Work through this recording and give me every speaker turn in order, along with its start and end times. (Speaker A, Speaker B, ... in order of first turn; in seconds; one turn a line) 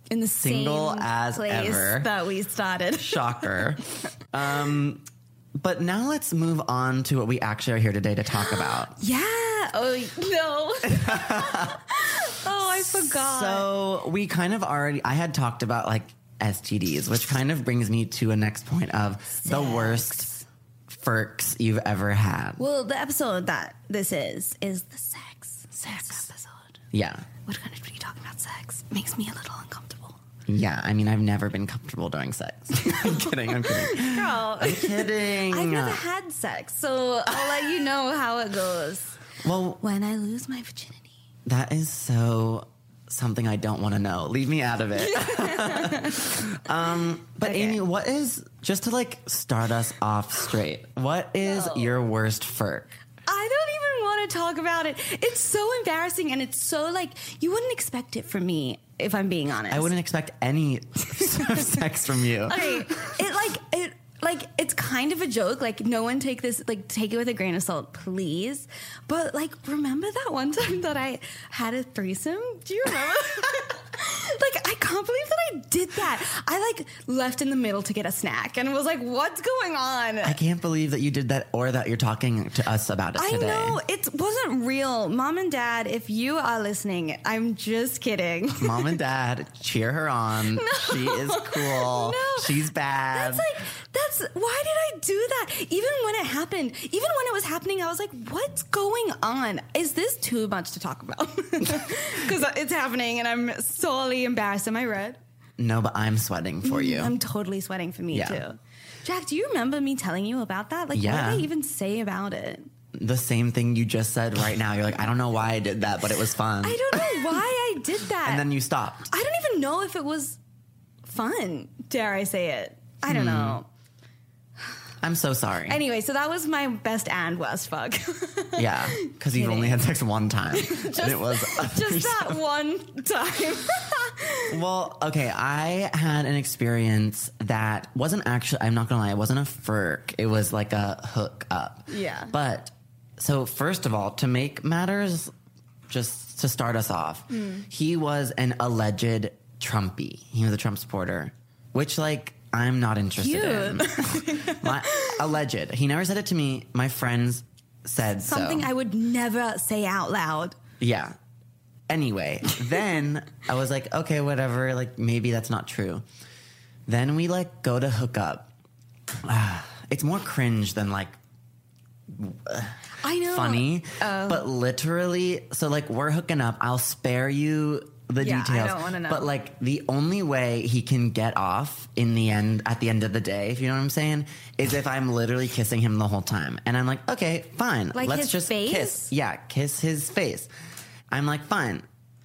Speaker A: 0.1-3.5
Speaker B: 0.3-2.1
Speaker B: 3.0-8.9
Speaker A: 8.5-13.7
Speaker B: 10.9-11.8
Speaker B: 12.6-20.3
Speaker A: 19.4-20.4
Speaker B: 20.9-22.6
Speaker A: 22.6-26.8
Speaker B: 25.8-26.2
Speaker B: 26.9-27.2
Speaker A: 27.4-30.2
Speaker B: 30.5-36.0
Speaker A: 32.8-39.2
Speaker B: 37.3-37.6
Speaker B: 39.4-39.8
Speaker A: 39.8-41.1
Speaker B: 41.5-52.9
Speaker A: 45.0-46.4
Speaker A: 47.4-47.8
Speaker A: 51.4-52.0
Speaker A: 53.2-59.9
Speaker B: 59.7-62.8
Speaker A: 61.2-61.6
Speaker A: 62.4-80.4
Speaker B: 80.2-83.8
Speaker A: 83.1-89.0
Speaker B: 88.6-93.5
Speaker A: 90.5-105.2
Speaker B: 105.6-107.1
Speaker A: 106.6-112.7
Speaker B: 108.1-108.4
Speaker B: 110.9-111.5
Speaker B: 112.9-117.5
Speaker A: 116.6-118.5
Speaker B: 118.2-119.1
Speaker A: 119.1-120.4
Speaker A: 121.0-123.7
Speaker B: 123.1-123.6
Speaker B: 125.0-125.8
Speaker A: 125.7-129.8
Speaker B: 128.6-132.4
Speaker A: 130.5-134.6
Speaker B: 134.5-145.3
Speaker A: 141.9-142.3
Speaker B: 145.9-158.7
Speaker A: 147.3-147.6
Speaker A: 153.2-155.2
Speaker A: 158.2-160.6
Speaker B: 160.8-161.1
Speaker B: 161.9-166.0
Speaker B: 166.9-168.5
Speaker B: 169.2-171.2
Speaker B: 172.1-190.5
Speaker A: 173.0-174.5
Speaker A: 178.2-179.3
Speaker A: 187.9-189.1
Speaker B: 191.1-191.8